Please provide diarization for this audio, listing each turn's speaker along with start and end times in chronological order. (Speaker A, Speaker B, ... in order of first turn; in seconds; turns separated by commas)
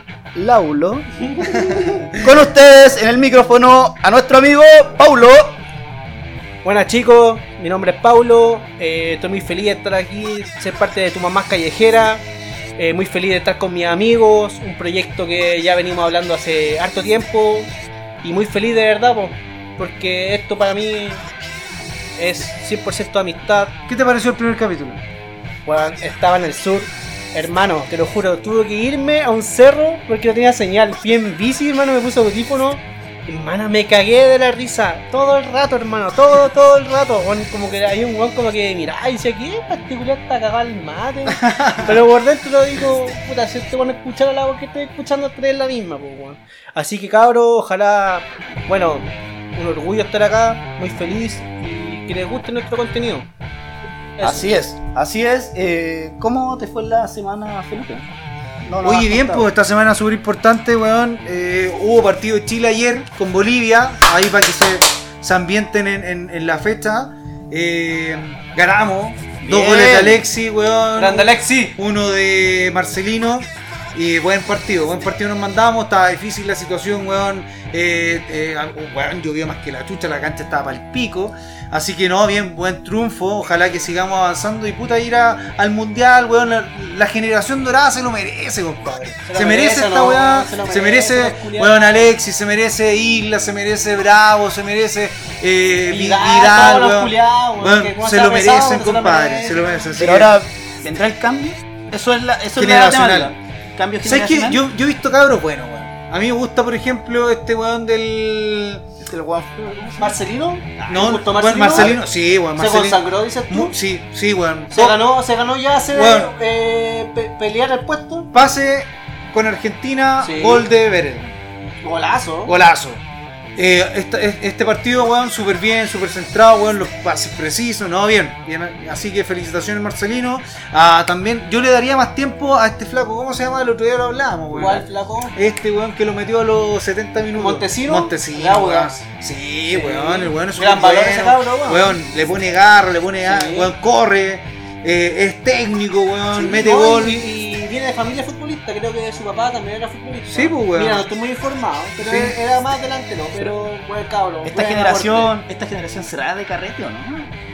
Speaker A: 0.3-1.6, Speaker B: 1.6-2.1, Speaker A: 2.1-5.6, Speaker C: 6.6-12.2, Speaker C: 12.8-17.7, Speaker C: 18.2-21.2, Speaker C: 22.2-23.7, Speaker B: 23.9-25.0, Speaker C: 25.6-53.3, Speaker B: 41.5-41.9, Speaker C: 54.2-54.5, Speaker A: 54.2-58.0, Speaker A: 58.6-59.5, Speaker B: 58.8-100.4, Speaker A: 69.4-70.2, Speaker C: 71.0-71.8, Speaker C: 89.2-92.1, Speaker C: 95.9-99.8, Speaker A: 100.0-104.6, Speaker B: 102.6-103.3, Speaker B: 104.0-108.8, Speaker A: 109.0-110.2, Speaker C: 110.0-112.0, Speaker A: 110.8-111.2, Speaker B: 110.9-115.0, Speaker C: 112.5-113.7, Speaker C: 114.7-118.3, Speaker B: 115.9-116.3, Speaker B: 118.3-121.3, Speaker C: 120.2-120.7, Speaker C: 121.8-122.5, Speaker B: 122.5-123.0, Speaker B: 123.5-147.2, Speaker C: 134.5-135.3, Speaker C: 137.3-139.0, Speaker C: 139.7-142.4, Speaker C: 143.2-143.7, Speaker C: 146.3-155.3, Speaker B: 150.3-151.1, Speaker B: 152.0-152.3, Speaker A: 154.4-157.3